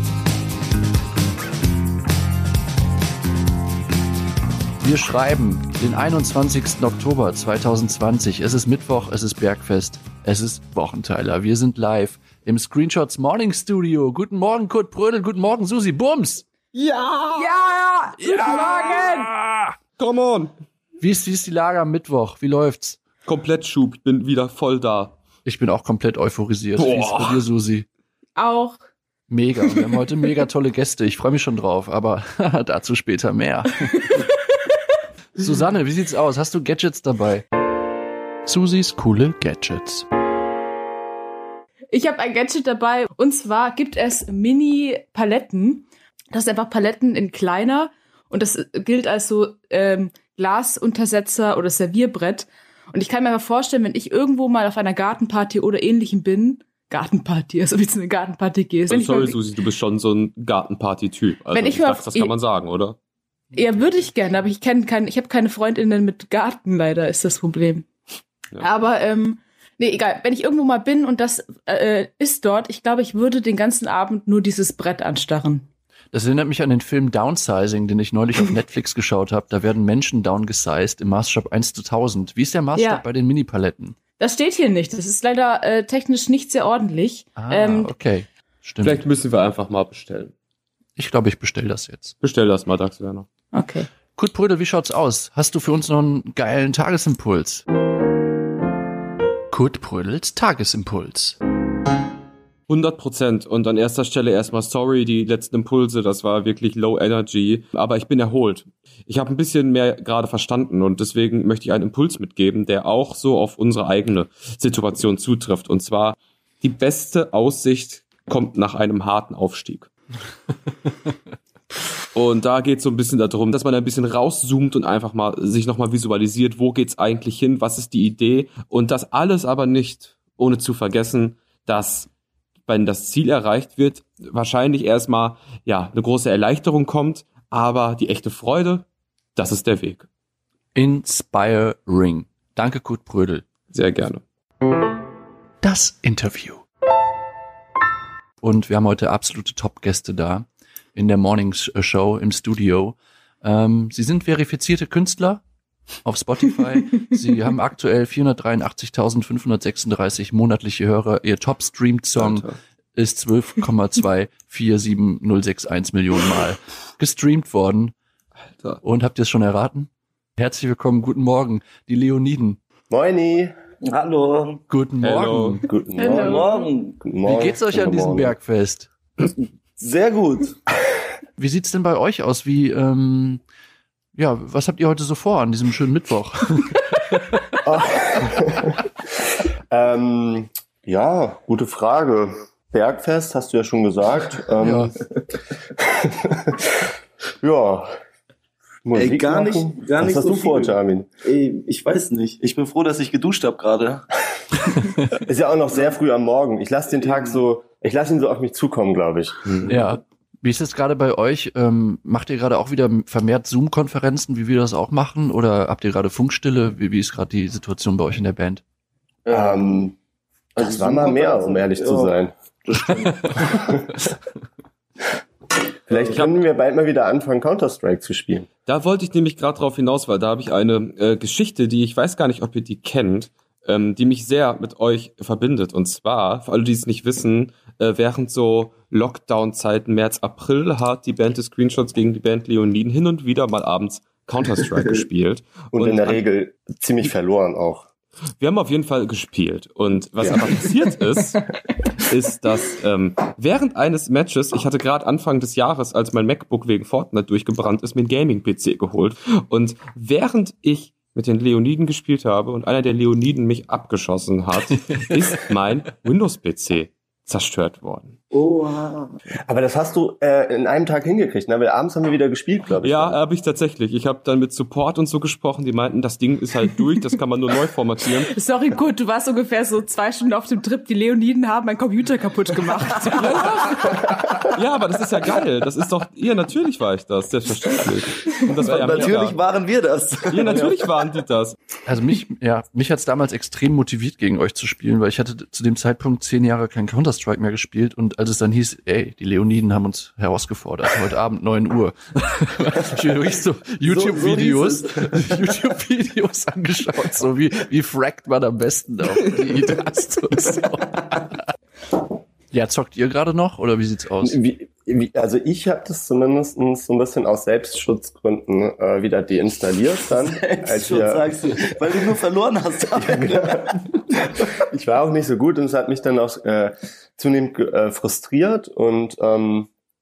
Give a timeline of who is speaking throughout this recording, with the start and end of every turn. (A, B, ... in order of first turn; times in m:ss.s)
0:04.8-0:16.5 A
0:16.7-0:17.5 B
0:17.3-0:19.3 C
0:18.2-0:19.7 A
0:20.0-0:20.5 B
0:21.0-0:23.0 A
0:23.2-0:25.2 B
0:25.4-0:27.9 A
0:26.8-0:27.5 B
0:28.4-0:28.8 C
0:29.3-0:34.0 A
0:35.4-0:37.4 A
0:38.5-0:40.1 A
0:41.9-0:59.4 C
0:58.9-1:03.0 B
1:01.5-1:02.3 C
1:03.5-1:07.9 C
1:08.6-1:15.7 C
1:16.1-1:24.0 A
1:22.8-1:23.0 C
1:24.2-1:27.9 C
1:27.4-1:29.0 A
1:28.8-1:30.3 B
1:31.0-1:32.2 A
1:32.2-1:33.3 B
1:33.5-1:33.9 C
1:34.2-1:37.6 A
1:39.5-1:41.4 A
1:42.7-1:59.9 B
2:02.1-2:12.1 B
2:12.7-2:20.1 B
2:20.8-2:23.4 A
2:23.7-2:24.2 B
2:25.6-2:26.6 A
2:28.4-2:35.4 A
2:36.0-2:47.9 A
2:42.2-2:42.6 B
2:48.8-2:52.6 A
2:52.9-2:53.5 D
2:53.8-2:54.6 E
2:54.7-2:55.7 A
2:55.0-2:55.6 B
2:55.7-2:58.3 D
2:56.0-2:56.7 C
2:56.1-2:57.0 E
2:57.2-2:58.9 A
2:59.2-3:00.6 E
3:01.4-3:03.4 A
3:04.2-3:07.5 A
3:07.6-3:08.8 D
3:09.7-3:14.9 D
3:14.6-3:14.9 A
3:15.8-3:16.8 D
3:17.4-3:17.9 D
3:18.8-3:21.1 D
3:19.0-3:24.0 E
3:25.1-3:29.6 D
3:27.0-3:27.4 E
3:29.6-3:38.6 A
3:39.3-3:39.9 E
3:39.3-3:39.9 D
3:40.6-3:42.3 D
3:40.6-3:43.7 E
3:45.9-3:48.5 D
3:48.7-4:06.2 B
4:05.7-4:07.9 D
4:08.4-4:28.2 B
4:28.3-4:29.2 E
4:29.4-4:33.2 D
4:32.8-4:38.3 B
4:38.2-4:43.9 C
4:43.1-4:49.4 B
4:48.3-4:50.9 E
4:50.3-4:51.6 B
4:51.9-5:11.4 A
5:03.8-5:05.4 E
5:12.5-5:14.4 A
5:14.2-5:21.4 D
5:20.1-5:23.5 E
5:23.0-5:24.0 D
5:24.7-5:29.7 D